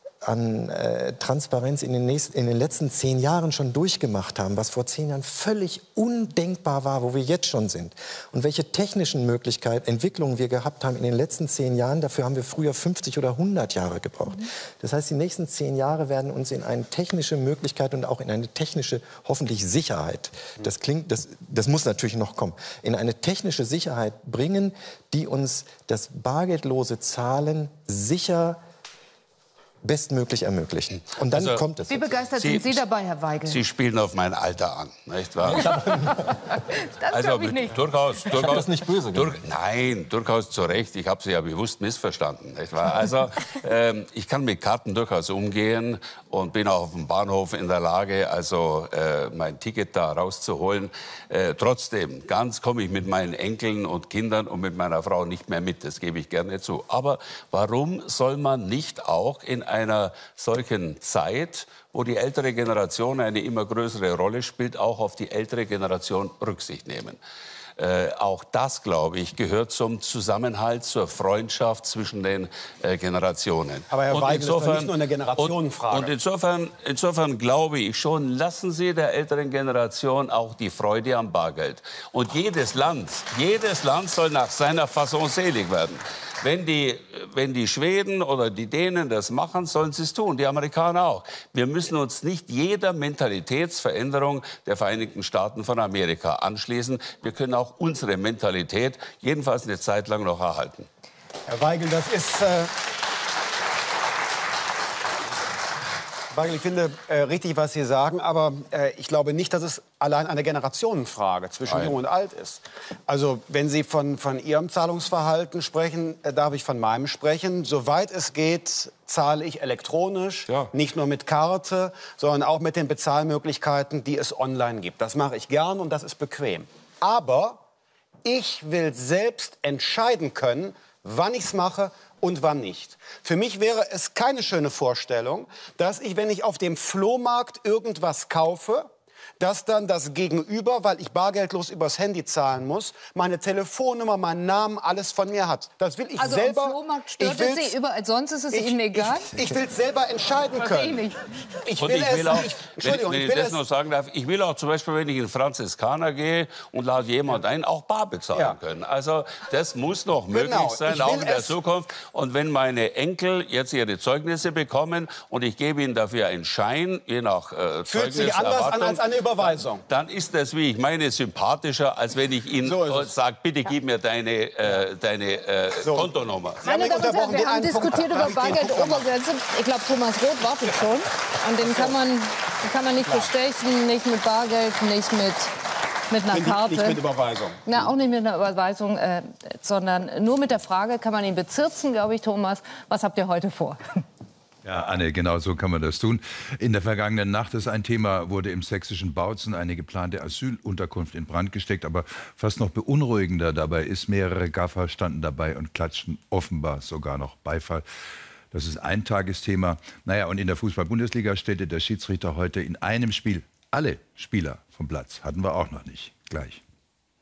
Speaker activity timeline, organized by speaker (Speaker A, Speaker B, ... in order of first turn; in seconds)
Speaker A: 0.2-28.6, 29.8-32.2, 35.5-36.2, 38.3-39.4
Speaker B: 31.3-31.6, 32.4-32.8, 33.5-36.0, 37.1-67.2, 67.8-100.9, 111.7-112.0, 151.8-176.6
Speaker C: 31.9-33.6, 36.5-37.8, 146.2-149.3, 150.6-151.3, 176.6-185.5, 186.1-187.0, 187.7-194.0
Speaker D: 73.9-76.1, 101.5-102.7, 106.3-127.6, 128.2-147.7, 148.5-151.0, 151.6-153.6, 160.3-161.5, 167.9-169.8, 172.6-173.1, 175.8-176.1, 176.6-179.1, 181.6-181.9, 183.0-183.3, 186.3-187.9
Speaker E: 194.6-207.8, 208.5-216.6